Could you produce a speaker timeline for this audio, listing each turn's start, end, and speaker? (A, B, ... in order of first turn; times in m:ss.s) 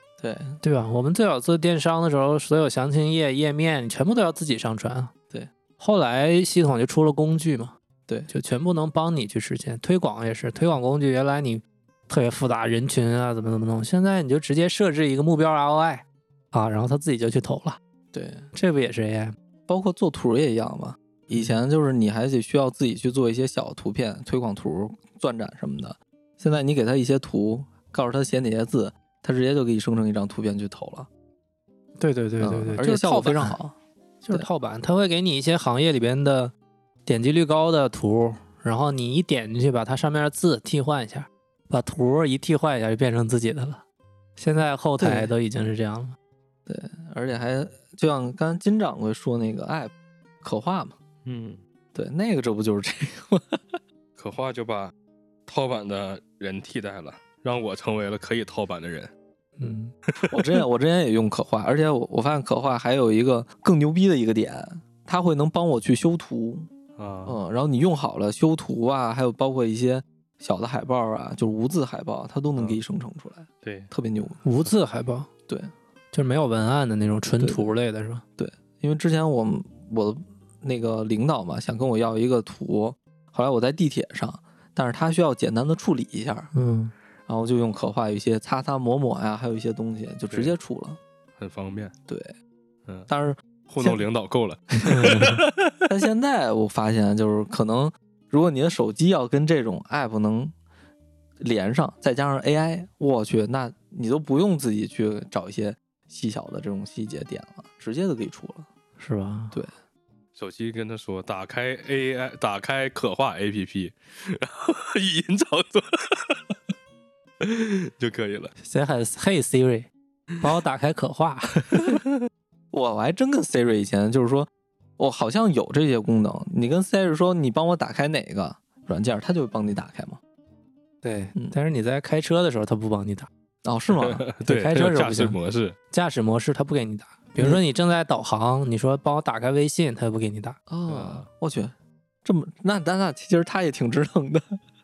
0:00.2-0:00.6 A
0:00.6-0:05.1 B
0:05.8-0:07.8 B
0:08.3-0:17.8 B
0:18.1-0:18.5 A
0:18.6-0:19.4 B
0:19.7-0:31.1 A
0:32.0-0:33.6 B
0:32.4-0:33.8 A
0:34.2-0:36.5 B
0:37.1-0:43.8 B
0:44.4-0:46.2 B
0:45.0-0:45.3 A
0:46.7-0:51.0 A
0:51.2-0:51.6 C
0:52.0-0:53.8 A
0:54.2-0:54.9 C
0:55.5-0:59.1 C
0:59.6-0:59.9 B
1:00.3-1:06.7 A
1:07.0-1:07.4 C
1:07.2-1:14.4 A
1:13.6-1:13.9 C
1:14.4-1:15.3 B
1:15.5-1:15.7 A
1:16.1-1:18.2 B
1:17.4-1:17.7 A
1:18.4-1:26.5 A
1:26.5-1:26.9 B
1:27.3-1:31.0 A
1:31.4-1:31.9 C
1:32.1-1:32.3 A
1:33.1-1:34.0 A
1:33.7-1:35.8 C
1:34.9-1:40.6 A
1:34.9-1:35.4 B
1:41.4-1:48.7 A
1:49.0-1:49.6 B
1:50.4-1:56.6 C
1:57.4-1:58.5 C
1:58.6-2:01.9 B
2:02.7-2:10.2 A
2:11.0-2:13.3 B
2:13.6-2:14.2 A
2:13.9-2:15.8 C
2:14.4-2:15.4 B
2:15.9-2:20.6 B
2:20.7-2:24.6 A
2:20.9-2:21.3 C